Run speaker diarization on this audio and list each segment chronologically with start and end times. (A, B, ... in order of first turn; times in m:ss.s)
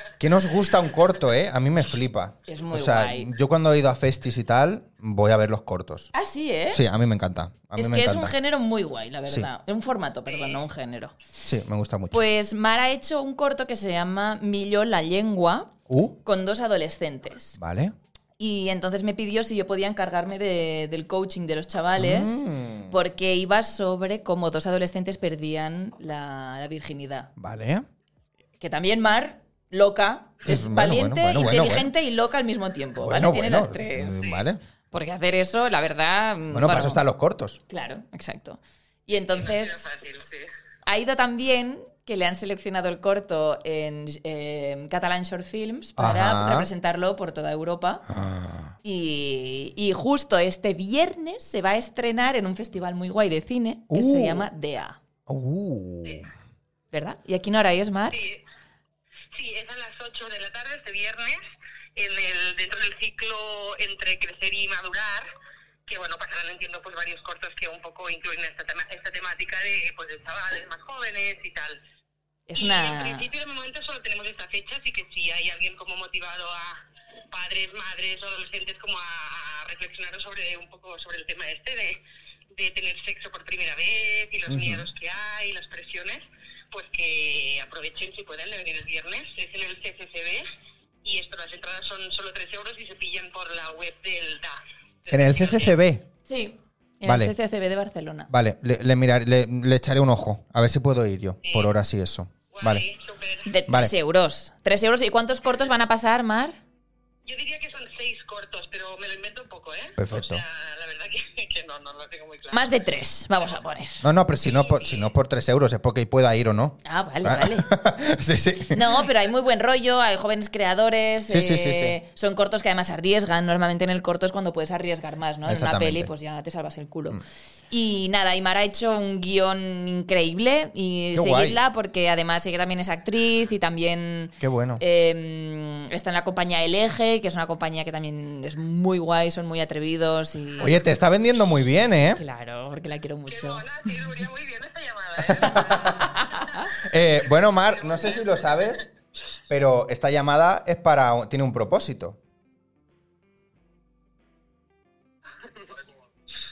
0:00.2-0:06.1 A
0:02.5-0:03.3 B
0:06.1-0:06.8 B
0:06.7-0:08.3 A
0:07.7-0:11.2 B
0:10.3-0:10.6 C
0:11.4-0:12.2 A
0:12.1-0:17.6 B
0:15.9-0:16.2 A
0:17.6-0:17.9 A
0:18.4-0:27.3 B
0:22.0-0:23.0 A
0:27.4-0:27.8 A
0:28.6-0:34.3 B
0:30.4-0:31.9 A
0:33.0-0:34.6 A
0:34.9-0:37.0 B
0:36.5-0:37.6 A
0:37.7-0:40.0 B
0:39.1-0:40.5 C
0:40.8-0:48.1 B
0:46.0-0:46.7 A
0:48.1-0:48.7 A
0:48.8-0:55.0 B
0:53.9-0:54.5 A
0:55.3-0:56.3 A
0:56.9-0:58.2 B
0:58.1-0:58.4 C
0:59.3-1:01.4 C
1:02.0-1:05.2 C
1:05.9-1:11.8 C
1:12.5-1:13.3 B
1:12.6-1:16.8 C
1:17.3-1:22.0 C
1:22.5-1:30.4 C
1:24.5-1:24.9 A
1:31.0-1:35.7 C
1:35.1-1:36.1 A
1:36.3-1:38.3 B
1:37.0-1:37.3 A
1:38.3-1:42.8 A
1:41.4-1:41.7 C
1:42.5-1:43.5 C
1:43.4-1:46.6 B
1:47.2-1:52.7 C
1:50.0-1:50.4 A
1:52.5-1:54.1 B
1:54.0-1:59.1 A
1:54.4-1:55.1 C
1:56.8-1:57.7 B
1:58.7-2:20.8 B
2:01.3-2:02.0 A
2:05.4-2:06.1 A
2:11.1-2:11.6 A
2:14.4-2:14.8 A
2:20.6-2:22.2 A
2:22.0-2:23.6 B
2:23.3-2:26.6 C
2:25.2-2:26.1 A
2:25.4-2:26.7 B
2:26.8-2:28.9 A
2:27.9-2:28.2 C
2:29.5-2:32.2 A
2:35.4-2:35.8 C